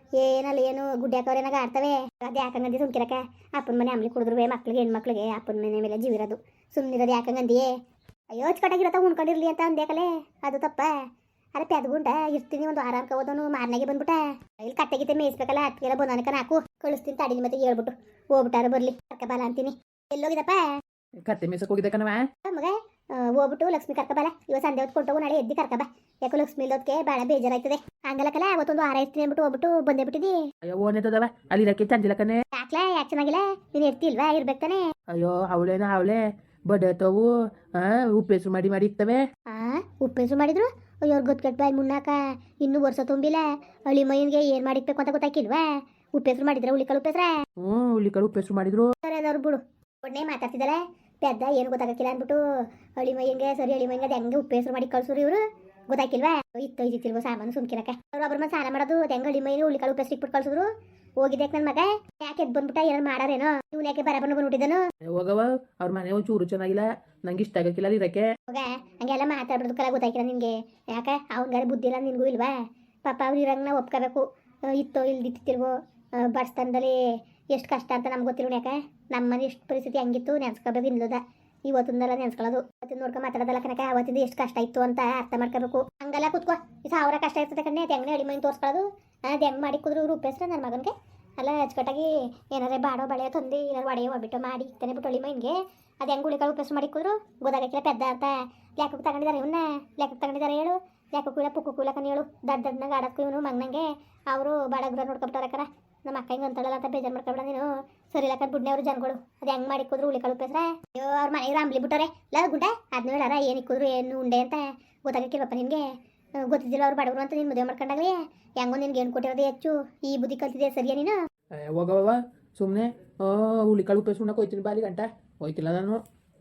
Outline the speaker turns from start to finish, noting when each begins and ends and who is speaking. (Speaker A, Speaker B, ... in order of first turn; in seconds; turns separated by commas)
Speaker A: 0.2-7.8, Speaker A: 8.3-10.9, Speaker A: 11.5-20.8, Speaker B: 21.2-22.3, Speaker A: 22.4-30.4, Speaker B: 30.6-32.4, Speaker A: 32.5-34.9, Speaker B: 35.1-39.2, Speaker A: 39.5-47.4, Speaker B: 47.6-48.9, Speaker A: 49.0-52.4, Speaker A: 53.0-60.7, Speaker A: 61.2-64.8, Speaker B: 65.1-68.3, Speaker A: 68.5-115.9, Speaker A: 116.4-121.2, Speaker B: 121.6-126.0